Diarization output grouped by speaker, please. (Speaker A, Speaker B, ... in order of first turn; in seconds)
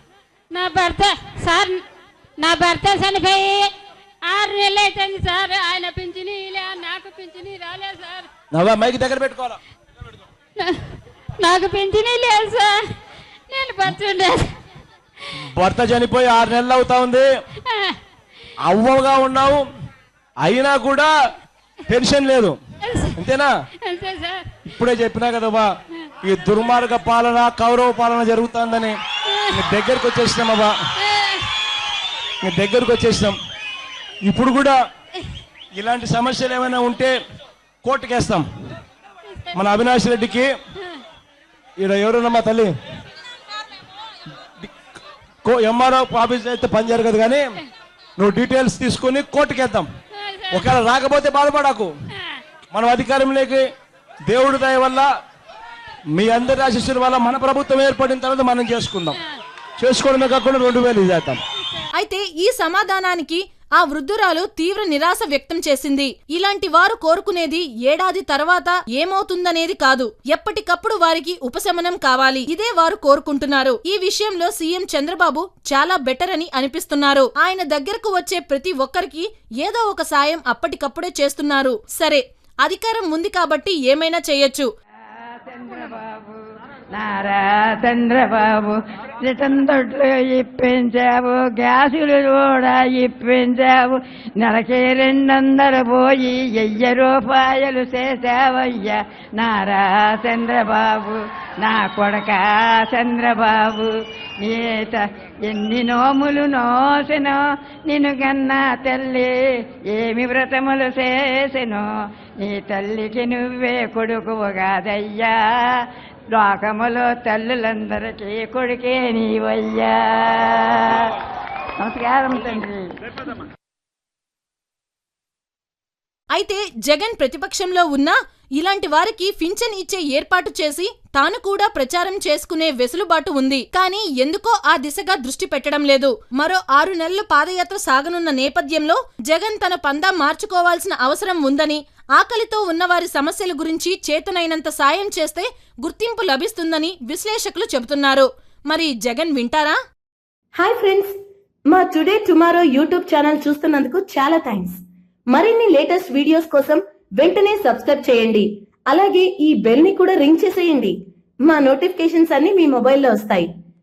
Speaker A: 0.5-1.8, 2.4-3.7, 4.3-8.3, 10.6-12.8, 13.5-14.5, 17.7-18.0, 22.8-23.2, 23.9-24.6, 29.3-29.7, 31.0-31.5, 50.1-50.7
Speaker B: 8.5-9.6, 15.5-17.3, 18.7-19.7, 20.4-21.1, 21.9-22.6, 23.2-23.5, 24.7-25.7, 26.2-28.9, 29.5-30.7, 32.4-33.4, 34.2-34.8, 35.7-37.1, 37.8-38.5, 39.5-40.5, 41.8-42.7, 45.4-47.5, 48.2-49.9, 50.5-51.9, 52.7-53.6, 54.3-55.1, 56.1-59.2, 59.8-61.4
Speaker C: 61.9-84.7, 126.3-149.8
Speaker D: 85.1-121.1, 121.8-122.9
Speaker E: 150.6-151.1, 151.7-154.8, 155.3-163.5